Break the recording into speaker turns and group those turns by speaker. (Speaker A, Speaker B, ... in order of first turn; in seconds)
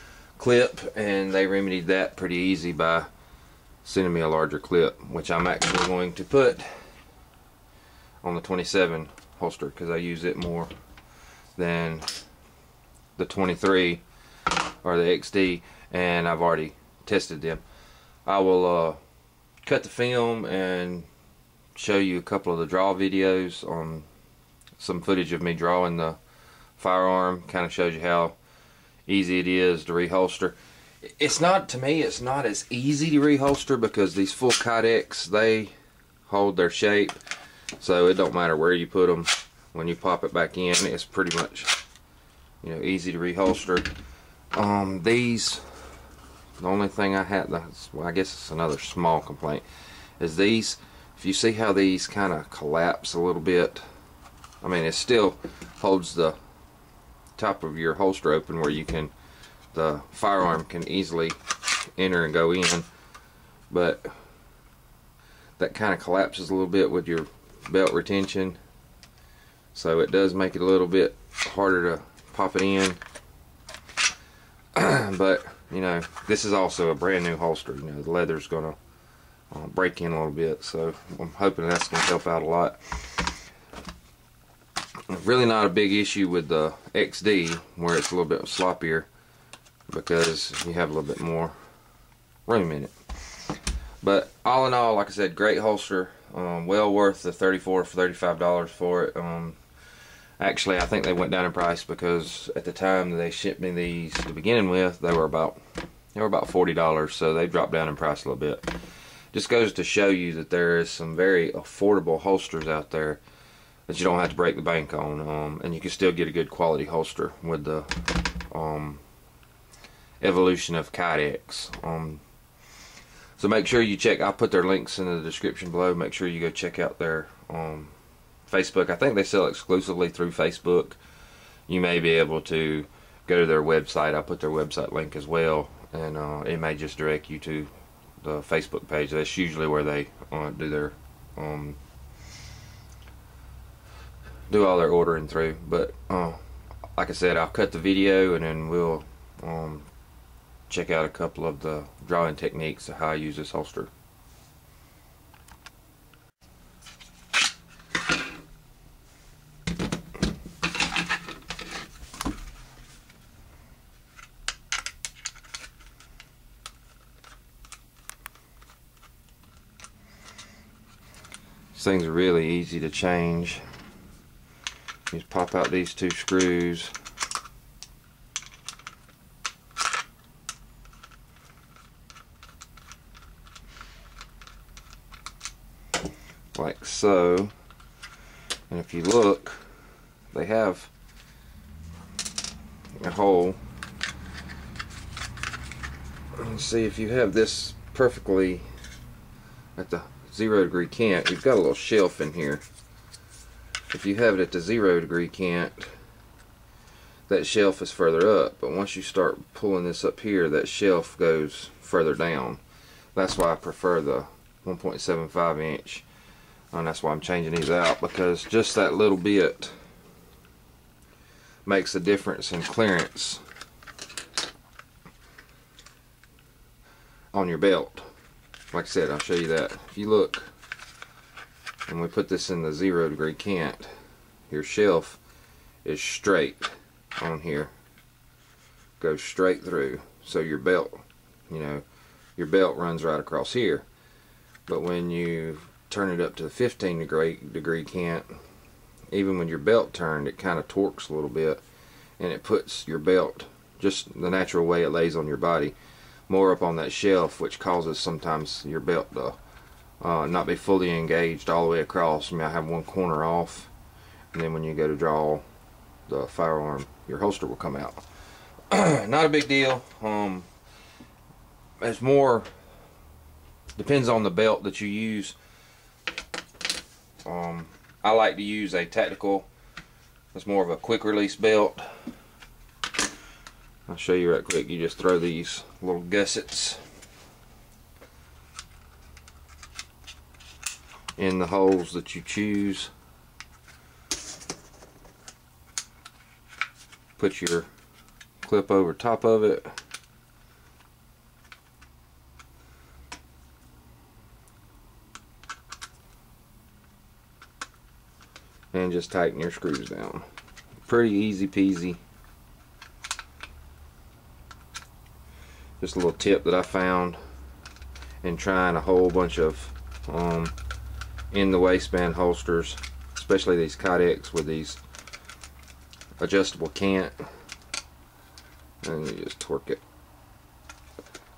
Speaker A: 0.4-3.1, 3.8-6.8, 8.2-10.7, 11.6-12.2, 13.2-14.0, 14.8-17.6, 18.3-19.0, 19.6-21.1, 21.8-24.1, 24.8-26.2, 26.8-28.4, 29.1-35.7, 36.3-37.2, 37.8-41.8, 42.6-43.9, 44.5-45.7, 46.6-49.6, 50.2-53.9, 54.6-56.4, 57.4-59.1, 59.7-61.4, 62.0-62.9, 63.7-64.1, 65.6-68.6, 69.7-73.0, 74.7-78.8, 79.5-83.3, 85.1-89.1, 89.9-91.5, 92.5-99.6, 100.4-105.6, 106.2-108.7, 109.3-113.2, 113.9-119.0, 120.2-122.2, 123.4-127.9, 128.5-131.0, 131.7-137.7, 138.2-141.8, 144.5-146.4, 146.9-149.9, 150.7-153.9, 171.7-173.6, 175.1-176.9, 186.6-187.5, 188.7-189.6, 190.3-190.9, 193.0-193.6, 196.4-198.7, 199.8-202.6, 203.9-205.9, 207.3-212.6, 213.2-216.1, 216.7-219.8, 221.7-223.4, 227.3-228.1, 228.7-230.5, 231.9-233.9, 234.5-235.2, 235.8-237.7, 239.0-241.8, 242.4-243.9, 244.7-248.3, 249.1-251.6, 252.2-255.8, 256.3-259.4, 260.0-263.7, 264.3-265.4, 266.1-268.0, 268.7-270.5, 271.8-272.5, 273.8-275.4, 277.2-279.5, 280.3-281.9, 283.9-286.8, 291.2-292.9, 297.2-297.7, 298.4-299.7, 308.7-310.3, 310.8-312.0, 315.8-317.2, 318.2-320.5, 321.3-324.8, 326.2-327.2, 328.8-329.8